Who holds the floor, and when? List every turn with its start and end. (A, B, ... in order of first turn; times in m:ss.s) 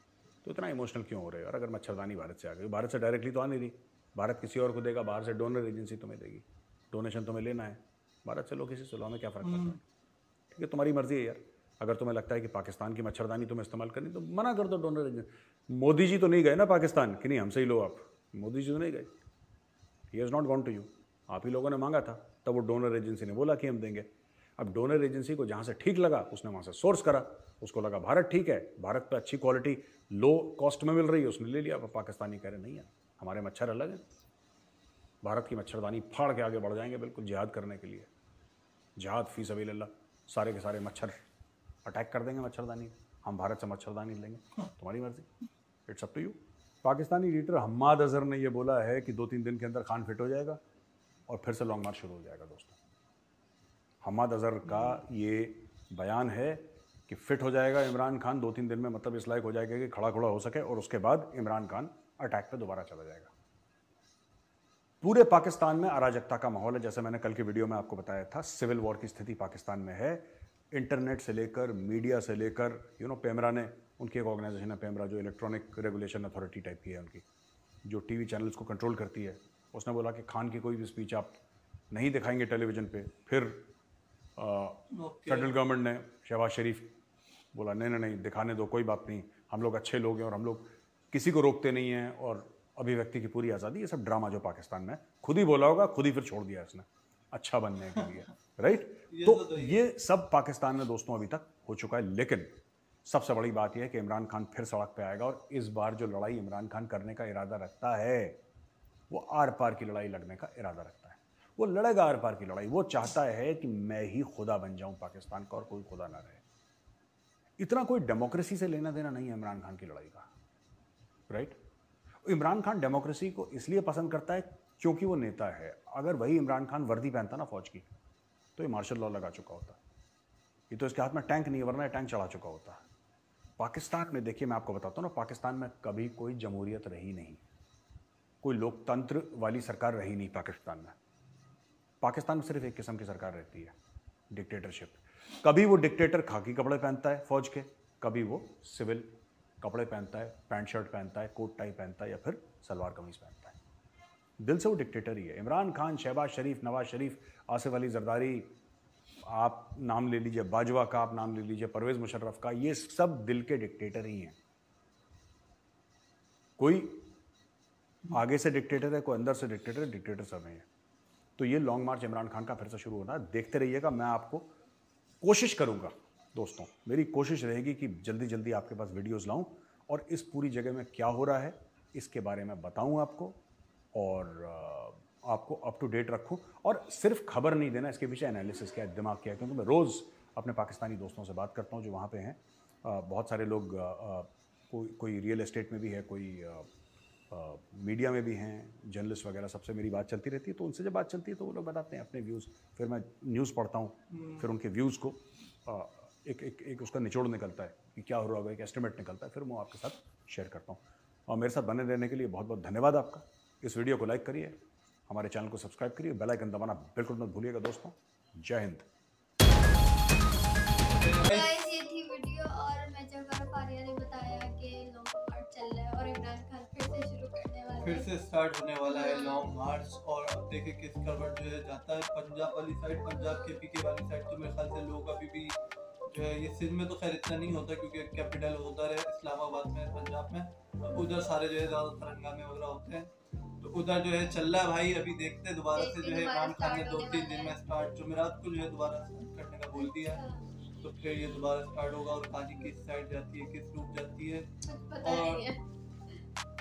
0:00.4-0:09.8 A
0:09.4-0:09.8 B
0:10.5-0:19.1 A
0:20.1-0:34.0 A
0:35.2-0:38.1 A
0:39.0-0:41.2 A
0:41.8-0:45.3 A
0:45.9-0:50.6 A
0:51.3-0:52.8 A
0:54.0-1:03.3 A
1:05.0-1:17.2 A
1:17.8-1:21.4 A
1:21.9-1:23.7 A
1:24.4-1:26.9 A
1:24.9-1:25.5 B
1:27.5-1:48.4 A
1:39.1-1:39.8 B
1:49.1-1:56.4 A
1:57.6-2:00.3 A
2:01.3-2:01.6 A
2:02.2-2:07.8 A
2:08.6-2:09.8 A
2:10.7-2:12.8 A
2:13.6-2:17.4 A
2:18.4-2:21.0 A
2:22.0-2:23.7 A
2:24.3-2:33.6 A
2:34.4-2:38.5 A
2:39.2-2:44.4 A
2:46.6-2:47.1 A
2:48.1-2:50.6 A
2:51.4-2:54.5 A
2:55.2-3:03.4 A
3:03.9-3:16.7 A
3:17.3-3:38.8 A
3:24.1-3:24.4 B
3:40.9-3:41.5 B
3:41.2-3:48.1 C
3:47.8-3:55.5 B
3:48.8-3:49.5 C
3:53.1-3:53.6 C
3:56.1-4:10.2 B
4:05.7-4:07.6 C
4:09.7-4:10.5 C
4:10.8-4:14.5 B
4:14.6-4:15.6 C
4:15.0-4:15.4 B